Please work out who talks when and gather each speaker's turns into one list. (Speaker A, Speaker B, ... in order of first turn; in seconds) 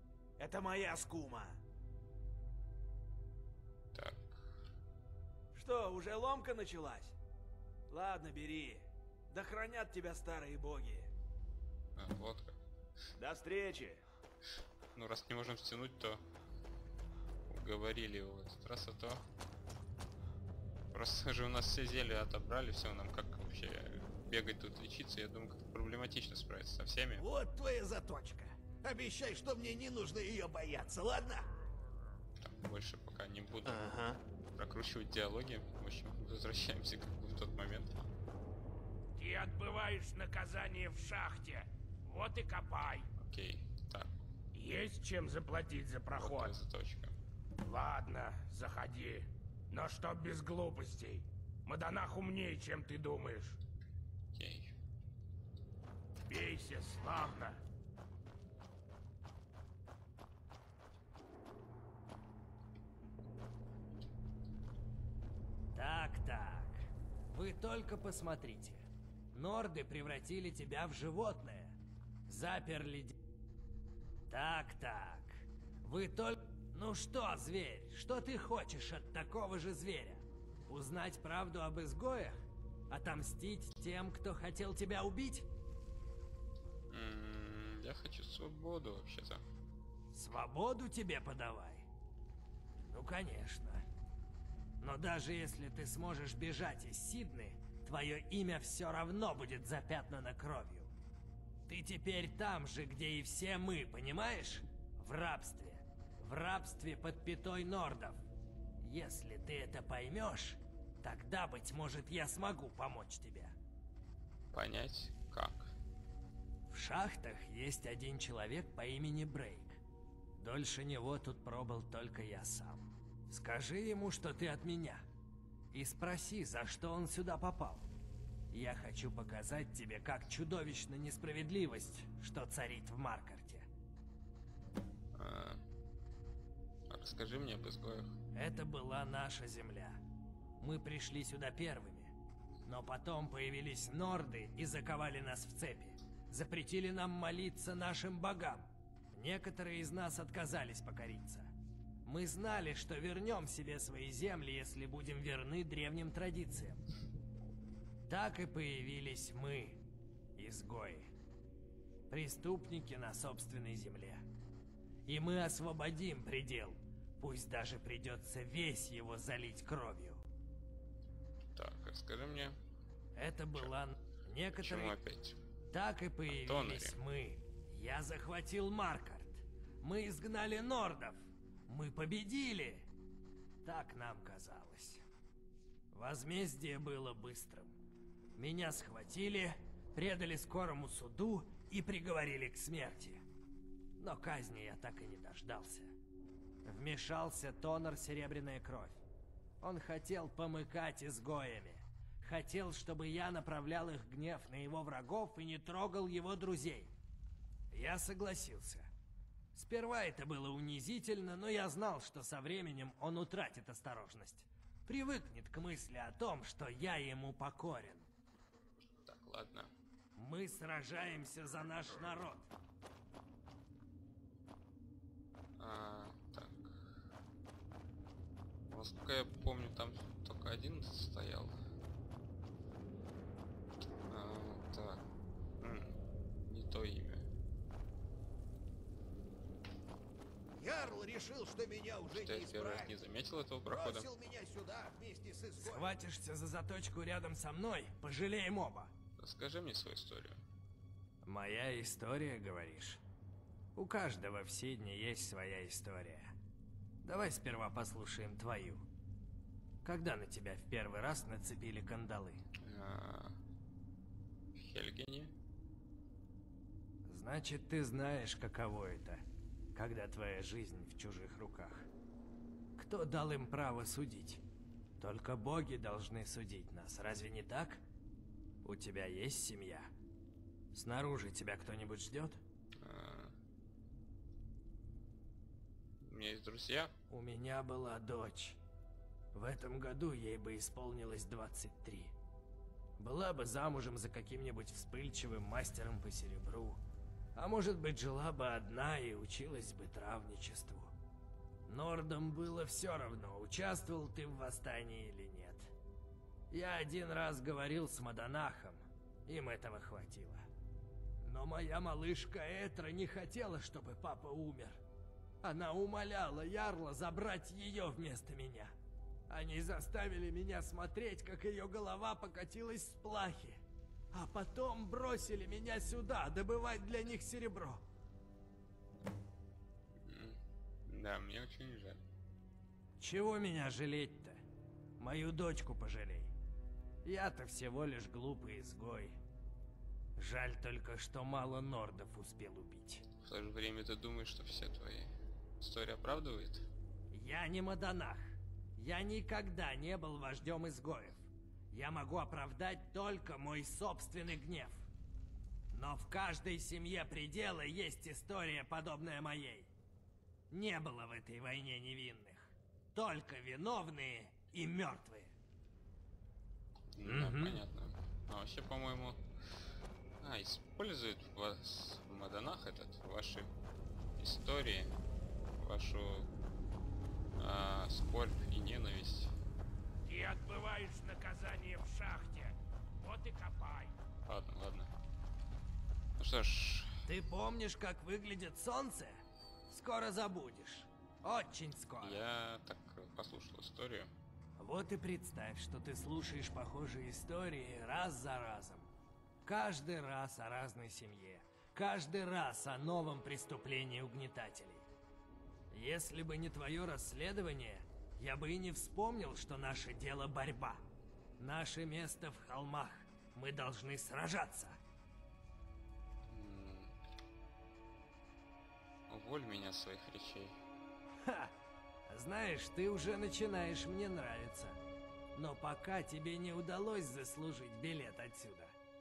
Speaker A: 0.4-1.6, 5.5-7.2, 7.9-11.1, 13.2-14.0
Speaker B: 3.9-4.4, 12.0-12.6, 14.9-16.2, 17.5-19.2, 20.9-27.3, 32.4-33.9, 34.5-38.1, 43.2-44.2, 46.1-47.2, 54.3-54.8, 86.9-89.4, 114.5-115.7, 135.2-135.6, 136.9-138.1, 171.6-172.6, 174.6-175.4, 176.3-177.0, 218.8-219.7, 225.6-226.8, 228.7-231.6, 234.1-235.0, 235.6-237.3, 242.1-244.1, 249.2-250.4, 262.6-263.4, 264.6-265.3, 282.8-283.4, 286.0-286.9, 330.0-332.0, 343.2-346.7, 366.9-369.2, 370.2-373.5, 374.2-374.9, 375.6-376.3, 377.4-379.3, 384.3-384.9, 386.2-387.0, 392.0-394.1, 416.3-416.9, 419.1-420.6
Speaker C: 27.2-31.5, 33.6-34.2, 240.6-242.9, 243.7-246.0
Speaker D: 39.2-43.1, 44.5-46.6, 47.6-53.6, 56.3-57.6, 380.1-383.9
Speaker E: 65.7-68.8, 69.3-73.2, 74.3-82.4, 82.9-85.5, 90.1-91.9, 92.9-93.9, 94.8-100.9, 101.7-108.2, 108.8-113.5, 116.7-119.8, 120.4-125.0, 125.7-127.9, 128.5-133.7, 138.3-140.0, 140.6-142.1, 142.7-151.5, 152.1-156.8, 158.1-159.8, 160.4-161.1, 162.1-164.2, 165.1-170.2, 173.2-175.0, 175.7-182.9, 183.6-185.0, 185.9-187.8, 188.4-193.2, 194.0-195.9, 196.7-199.0, 199.6-206.9, 207.7-208.9, 209.6-218.1, 220.2-222.5, 245.6-248.9, 251.2-253.0, 253.8-256.3, 257.0-258.9, 259.8-262.4, 267.1-269.2, 269.8-271.9, 272.8-274.4, 275.0-277.8, 278.6-279.9, 280.7-282.4, 287.1-288.6, 289.3-292.1, 293.0-296.8, 297.4-300.9, 301.7-305.7, 306.5-310.4, 311.2-314.8, 315.4-318.8, 319.3-323.6, 324.1-327.8, 333.0-334.4, 335.0-336.3, 337.1-339.2, 340.2-343.0, 347.1-354.9, 355.7-359.7, 360.5-365.4, 367.0-367.6, 387.1-392.2, 394.6-398.9, 399.4-404.9, 405.7-410.9, 411.4-414.8, 421.2-421.5, 422.1-424.8, 425.4-428.8